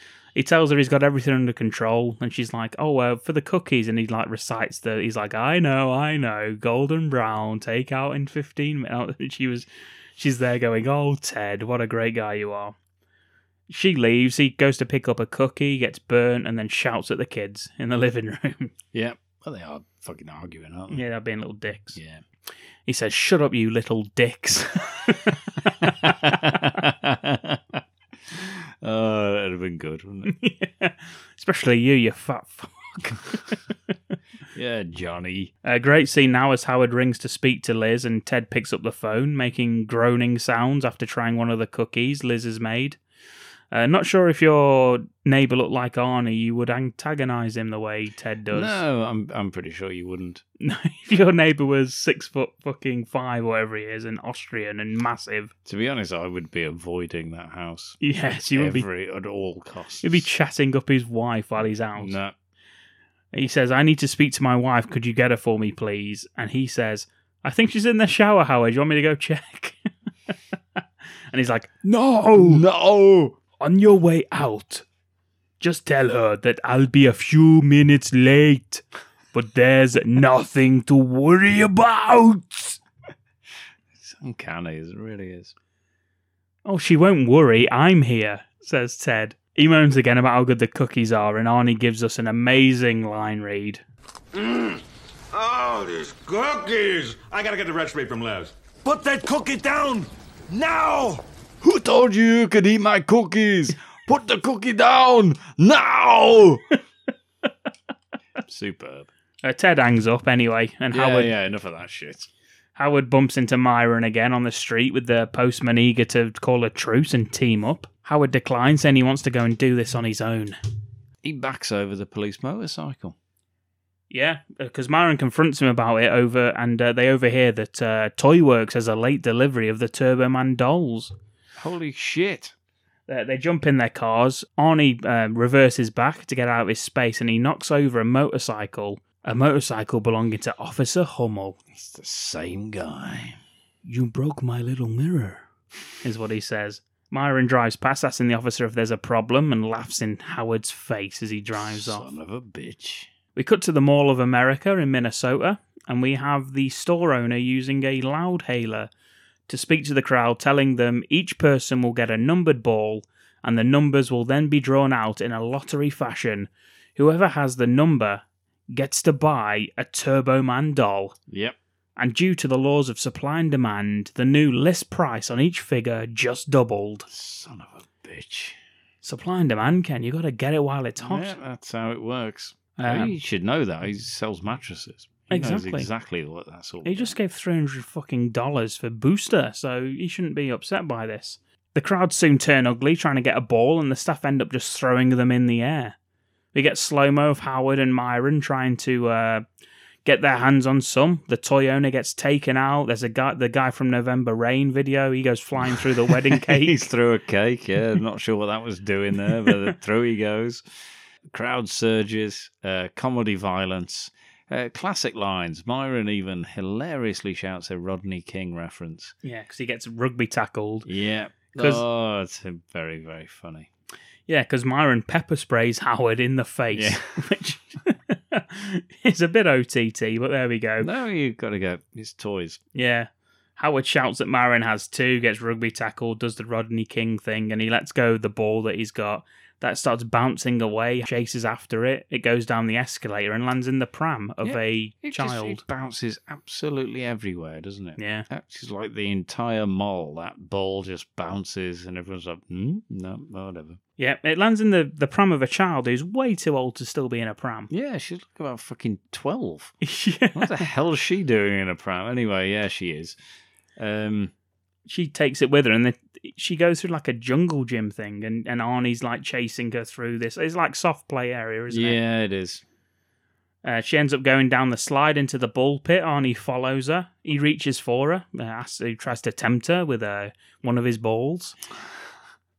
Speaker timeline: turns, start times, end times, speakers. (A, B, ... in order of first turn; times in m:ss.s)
0:00.4-0:09.7 A
0:10.2-0:12.8 A
0:13.7-0:18.7 A
0:18.9-0:21.0 B
0:20.9-0:22.0 A
0:22.0-0:22.2 B
0:22.9-0:25.4 A
0:25.8-0:27.8 B
0:28.3-0:30.3 B
0:30.3-0:33.6 A
0:34.5-0:35.5 B
0:35.6-0:43.0 A
0:43.7-0:48.8 A
0:48.5-0:50.4 B
0:50.6-0:55.5 A
0:55.7-1:00.3 B
0:58.0-0:58.9 A
1:00.0-1:02.2 A
1:02.0-1:02.3 B
1:03.3-1:09.8 A
1:10.8-1:12.6 A
1:12.4-1:13.4 B
1:13.6-1:14.8 A
1:15.6-1:18.8 A
1:19.3-1:22.8 A
1:24.0-1:25.5 B
1:26.7-1:33.8 A
1:34.3-1:34.8 C
1:35.3-1:41.2 C
1:41.6-1:46.7 B
1:48.5-1:49.1 B
1:49.4-1:51.3 A
1:50.9-1:52.3 B
1:52.8-2:00.6 A
2:01.2-2:03.2 B
2:04.1-2:11.1 A
2:11.6-2:12.5 B
2:13.1-2:21.6 A
2:21.7-2:23.4 B
2:23.8-2:25.4 A
2:26.0-2:32.1 A
2:31.6-2:33.1 B
2:33.4-2:38.9 A
2:39.5-2:51.2 A
2:51.3-2:51.6 B
2:52.0-2:57.1 A
2:57.1-2:58.6 B
2:59.0-3:01.4 A
3:01.0-3:07.2 B
3:02.8-3:03.1 A
3:05.3-3:05.9 A
3:06.8-3:16.0 A
3:16.6-3:19.4 A
3:20.0-3:26.8 A
3:25.6-3:30.6 B
3:31.3-3:39.2 B
3:39.2-3:40.9 A
3:40.9-3:43.7 B
3:41.6-3:41.8 A
3:44.3-3:50.9 A
3:46.8-3:47.1 B
3:50.8-3:52.6 B
3:52.8-4:05.6 A
4:04.4-4:13.8 B
4:08.0-4:08.3 A
4:14.0-4:17.7 A
4:17.7-4:19.8 B
4:19.8-4:20.6 A
4:20.3-4:23.2 B
4:23.8-4:24.3 B
4:24.9-4:32.0 A
4:31.7-4:32.6 B
4:33.6-4:41.6 A